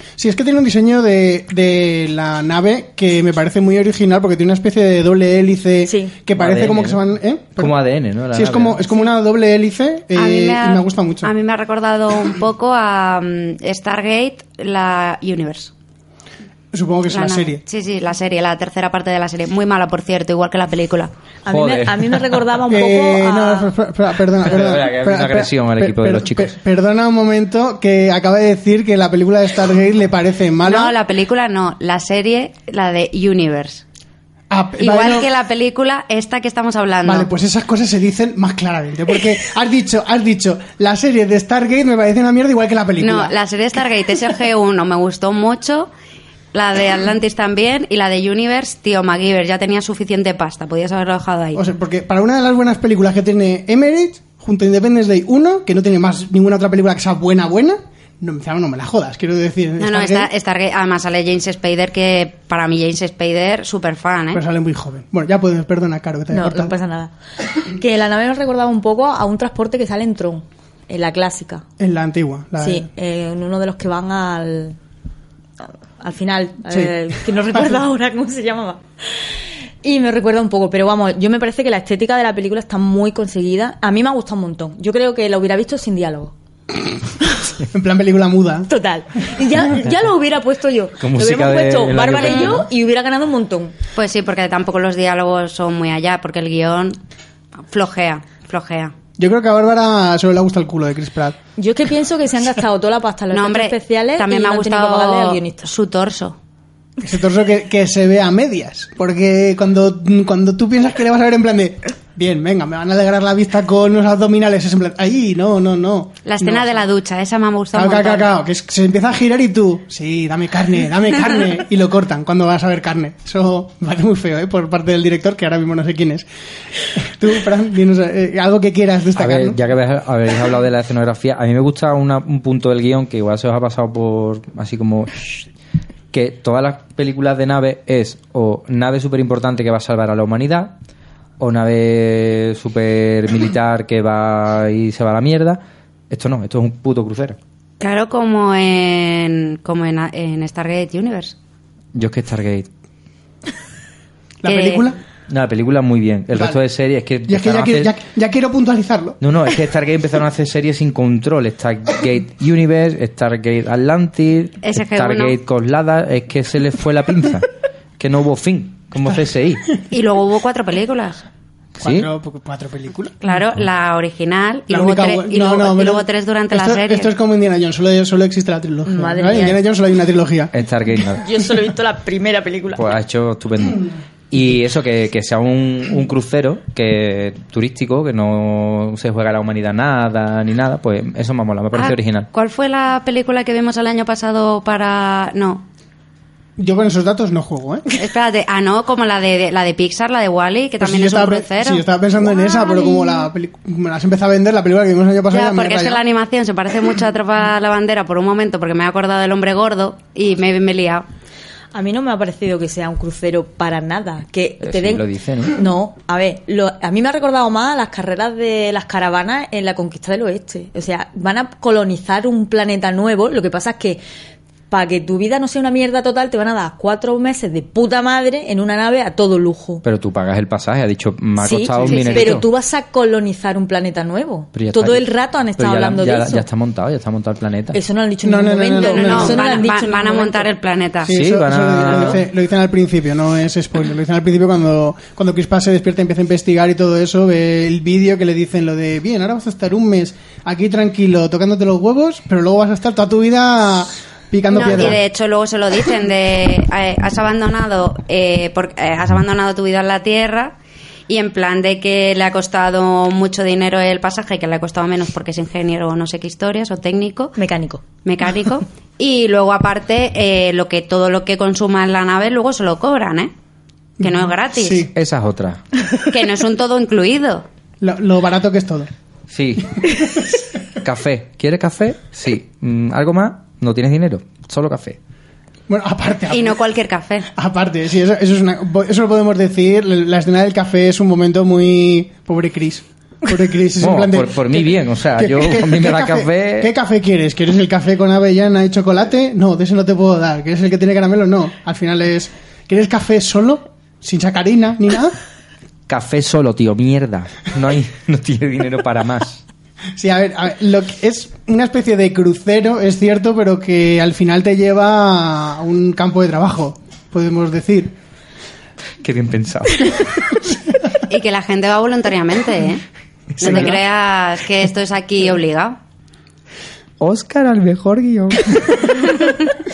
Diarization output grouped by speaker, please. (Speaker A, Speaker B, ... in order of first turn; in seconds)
Speaker A: 0.2-7.8, 8.3-11.3, 16.7-17.6, 22.7-31.0, 34.5-35.3, 37.0-43.3, 51.5-60.3, 64.3-66.8, 71.8-72.9, 87.7-88.7, 99.2-101.4, 107.0-116.8, 117.7-126.3, 127.0-129.6, 154.4-155.0, 156.3-156.6, 157.3-159.2, 171.8-173.1, 174.7-180.5, 196.6-197.9, 200.8-206.0, 238.2-239.7, 241.0-255.0, 274.0-274.9, 277.8-278.9, 285.7-286.6, 287.3-305.2, 310.0-317.9, 323.4-323.8
Speaker B: 5.9-6.2, 21.4-23.7, 66.3-67.1, 67.7-71.7, 72.6-74.8, 76.0-78.8, 79.8-86.3, 88.7-93.7, 101.6-105.7, 178.9-179.6, 181.2-182.9, 211.7-224.0, 224.7-229.8, 231.4-236.4, 237.7-240.5, 267.4-267.8
Speaker C: 6.4-7.0, 7.6-8.8, 21.5-22.3, 24.4-26.5, 91.0-92.7, 129.2-135.3, 136.1-140.8, 141.4-147.4, 151.9-152.7, 155.3-157.9, 159.2-169.7, 171.8-172.1, 180.5-181.2, 182.7-192.3, 214.6-215.6, 229.8-232.4, 234.5-237.8, 241.1-242.2, 274.9-275.6, 279.3-280.2, 280.8-285.0, 293.8-296.7, 305.9-309.4, 319.0-320.3, 323.4-323.8, 327.0-329.1
Speaker D: 10.2-15.7, 17.1-21.1, 30.6-33.8, 34.8-37.3, 43.0-45.9, 46.5-51.6, 59.8-64.4, 92.2-92.5, 94.0-97.0, 97.7-98.9, 103.3-106.4, 116.2-118.3, 147.8-151.4, 154.4-154.9, 164.6-165.4, 169.9-171.2, 173.2-177.1, 191.7-195.7, 197.9-201.8, 202.4-203.2, 205.3-211.1, 231.9-232.3, 238.9-241.1, 254.5-260.6, 261.1-267.4, 268.1-273.3, 274.0-274.9, 276.0-277.5, 286.3-287.3, 321.1-322.8, 323.4-325.8